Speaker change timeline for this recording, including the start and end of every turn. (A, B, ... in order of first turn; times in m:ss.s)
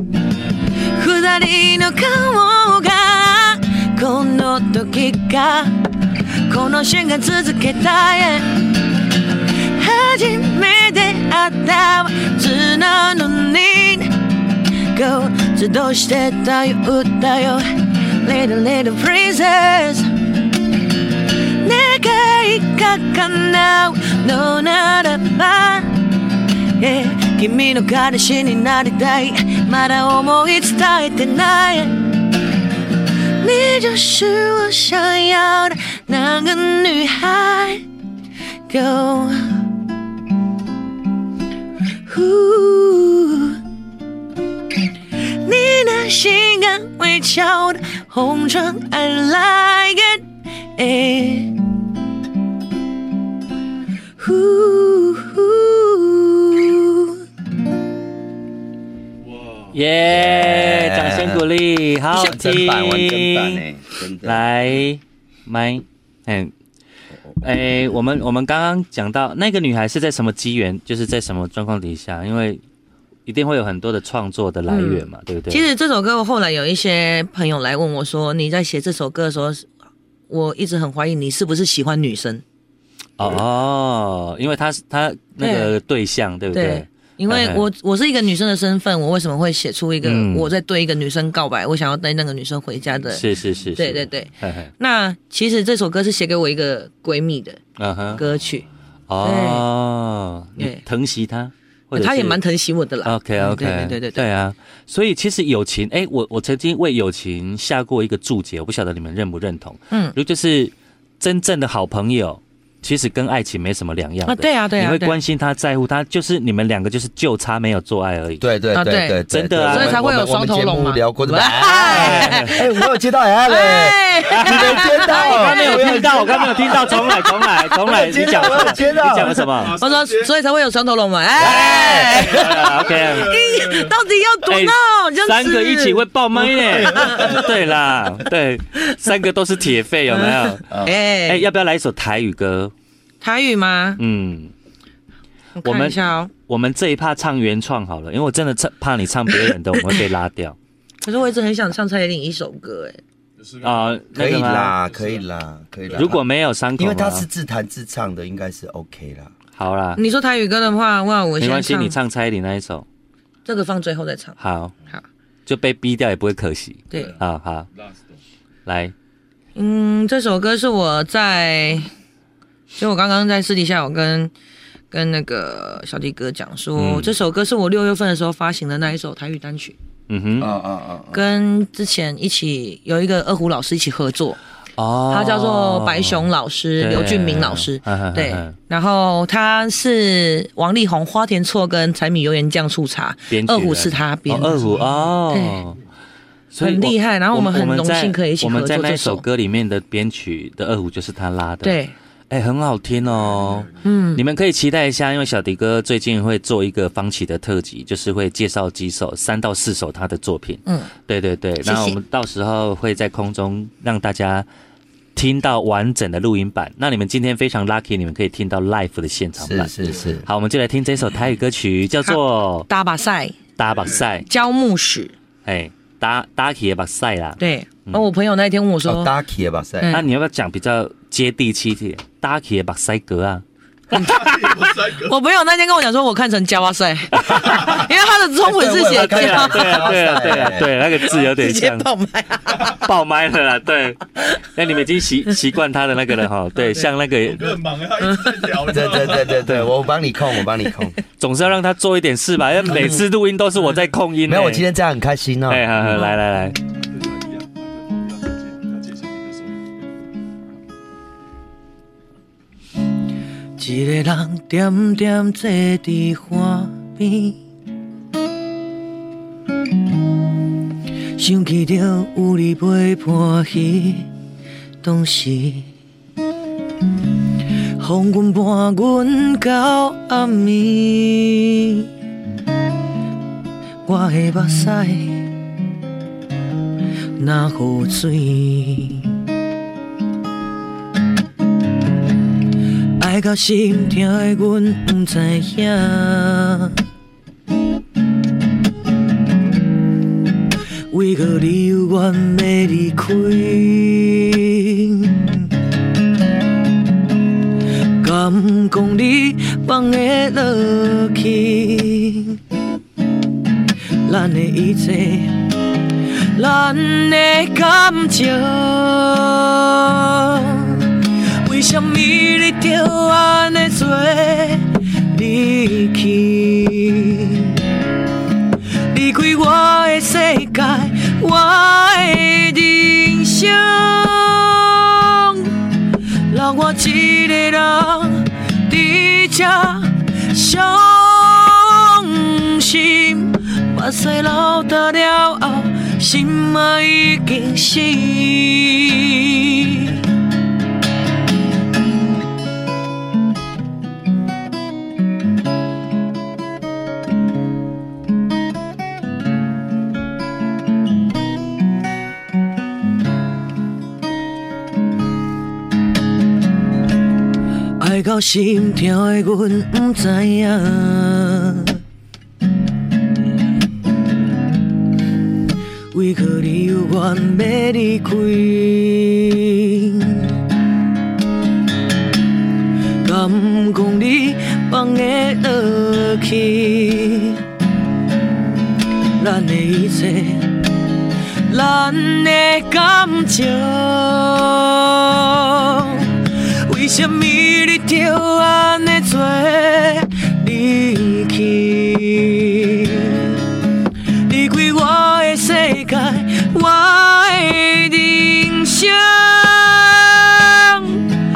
0:00.9-0:05.9 A
0:06.4-0:08.7 A
0:09.6-0:14.2 A
0:14.8-0:20.1 A
0:21.4-0:26.0 A
0:26.7-0:32.2 A
0:33.3-0:37.8 A
0:38.7-0:39.6 A
0:42.0-0:43.6 A
0:45.2-0:51.6 A
0:54.2-0:57.2 A
0:59.2-0:59.8 B
0:59.7-1:03.6 C
1:00.1-1:01.5 D
1:02.1-1:04.5 D
1:04.2-1:06.5 C
1:07.4-1:12.6 C
1:13.2-1:15.7 C
1:14.7-1:19.7 A
1:20.3-1:22.4 A
1:23.2-1:27.7 C
1:25.4-1:25.7 A
1:26.5-1:33.2 A
1:30.0-1:30.5 C
1:33.1-1:34.7 C
1:33.8-1:37.6 A
1:37.8-1:38.2 C
1:38.1-1:38.6 A
1:38.2-1:38.6 B
1:39.1-1:42.4 C
1:39.2-1:39.7 A
1:40.6-1:40.8 A
1:41.9-1:44.2 A
1:43.0-1:58.4 C
1:49.9-1:50.2 A
1:54.2-1:55.2 A
1:58.4-2:07.0 D
1:58.7-2:02.8 A
1:59.3-2:00.2 C
2:01.7-2:02.6 C
2:03.4-2:07.0 A
2:04.3-2:09.8 C
2:07.8-2:09.4 D
2:08.8-2:10.3 B
2:09.8-2:17.4 A
2:11.4-2:12.5 D
2:11.7-2:13.4 C
2:12.1-2:14.0 B
2:14.4-2:20.7 C
2:16.7-2:17.2 D
2:17.0-2:17.5 B
2:20.1-2:21.4 A
2:20.7-2:20.9 D
2:21.2-2:22.7 C
2:23.2-2:24.0 A
2:24.0-2:24.5 C
2:25.6-2:26.3 A
2:25.6-2:30.6 C
2:31.0-2:33.0 A
2:33.4-2:35.2 B
2:33.6-2:34.7 C
2:34.1-2:36.2 D
2:35.8-2:36.2 B
2:35.9-2:37.3 C
2:36.8-2:39.3 D
2:39.5-2:40.0 C
2:40.0-2:42.0 A
2:41.4-2:42.8 C
2:43.4-2:44.4 A
2:44.4-2:44.7 C
2:45.4-2:47.7 C
2:46.9-2:47.2 A
2:46.9-2:48.2 B
2:48.6-2:48.9 C
2:49.5-2:51.9 A
2:52.8-2:54.3 A
2:54.9-2:59.8 A
2:56.8-2:57.1 C
3:00.1-3:00.5 C
3:00.4-3:01.2 D
3:01.1-3:04.4 A
3:04.8-3:06.3 C
3:05.1-3:15.6 A
3:06.8-3:08.5 C
3:13.3-3:15.8 C
3:14.4-3:15.9 B
3:16.5-3:21.8 C
3:16.6-3:19.2 A
3:21.6-3:21.9 A
3:22.3-3:34.4 C
3:22.9-3:23.9 B
3:23.8-3:24.2 A
3:30.6-3:30.9 A
3:31.6-3:32.0 A
3:35.1-3:39.7 C
3:39.4-3:40.2 D
3:40.2-3:42.7 C
3:42.0-3:43.4 A
3:43.6-3:44.3 C
3:43.6-3:44.0 B
3:44.2-3:45.1 A
3:45.4-3:48.0 C
3:47.4-3:49.1 A
3:48.8-3:50.0 D
3:49.8-3:50.1 A
3:49.9-3:53.4 C
3:53.9-4:00.3 A
3:53.9-3:55.2 B
3:57.2-3:57.9 B
3:58.4-4:00.7 D
3:58.8-4:01.9 C
4:00.8-4:02.8 A
4:02.5-4:02.8 B
4:02.8-4:07.6 C
4:07.3-4:09.5 B
4:08.7-4:11.0 D
4:11.2-4:14.6 C
4:12.6-4:13.0 D
4:14.2-4:15.6 D
4:15.5-4:16.6 C
4:16.7-4:19.7 B
4:23.6-4:27.4 A
4:31.1-4:34.1 A
4:34.8-4:35.7 A
4:37.8-4:41.9 A
4:43.8-4:45.3 A
4:47.2-4:49.1 A
4:53.0-4:56.7 A
5:00.9-5:05.5 A
5:08.0-5:12.4 A
5:14.0-5:15.4 A
5:16.3-5:27.6 A
5:28.9-5:35.5 A
5:36.3-5:50.0 A
6:07.8-6:11.8 A
6:15.9-6:20.3 A
6:23.0-6:27.4 A
6:29.2-6:30.7 A
6:31.5-6:43.4 A
6:44.2-6:51.1 A